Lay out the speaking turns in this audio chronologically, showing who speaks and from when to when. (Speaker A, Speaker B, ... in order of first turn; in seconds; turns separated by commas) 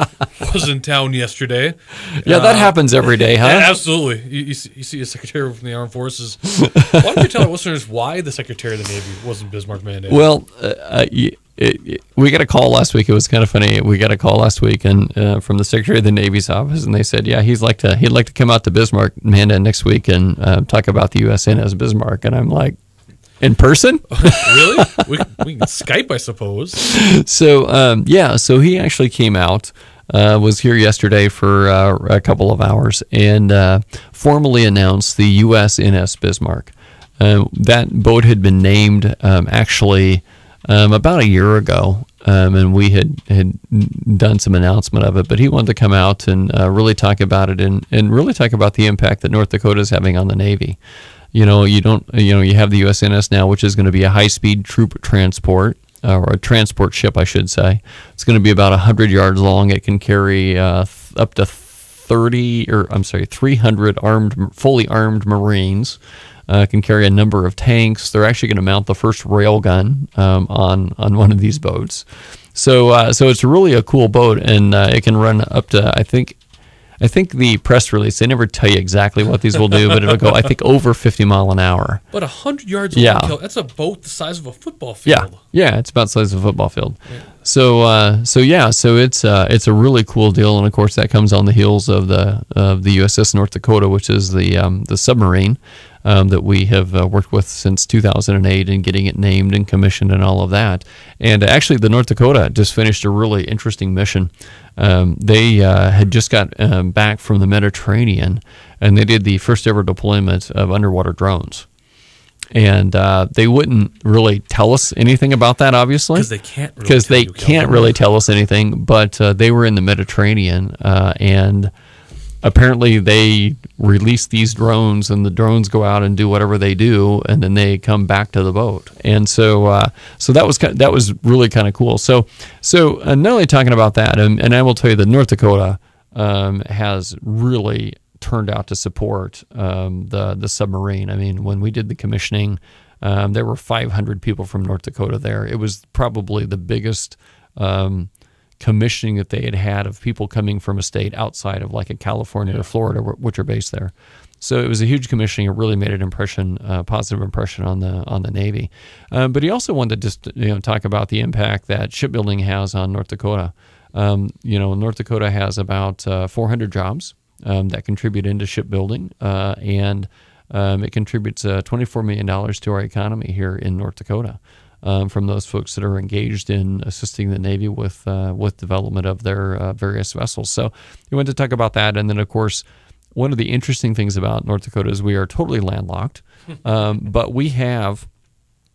Speaker A: 0.3-2.8, Speaker B: 2.2-3.8, Speaker A: 3.4-10.2, Speaker B: 10.1-22.8, Speaker B: 23.4-25.0, Speaker A: 24.1-26.9, Speaker B: 26.8-50.8, Speaker B: 51.3-76.4, Speaker B: 77.0-82.0, Speaker A: 82.1-85.4, Speaker B: 82.9-83.3, Speaker B: 85.0-111.7, Speaker B: 112.5-116.3, Speaker A: 116.1-117.9, Speaker B: 116.8-121.7, Speaker B: 122.4-188.1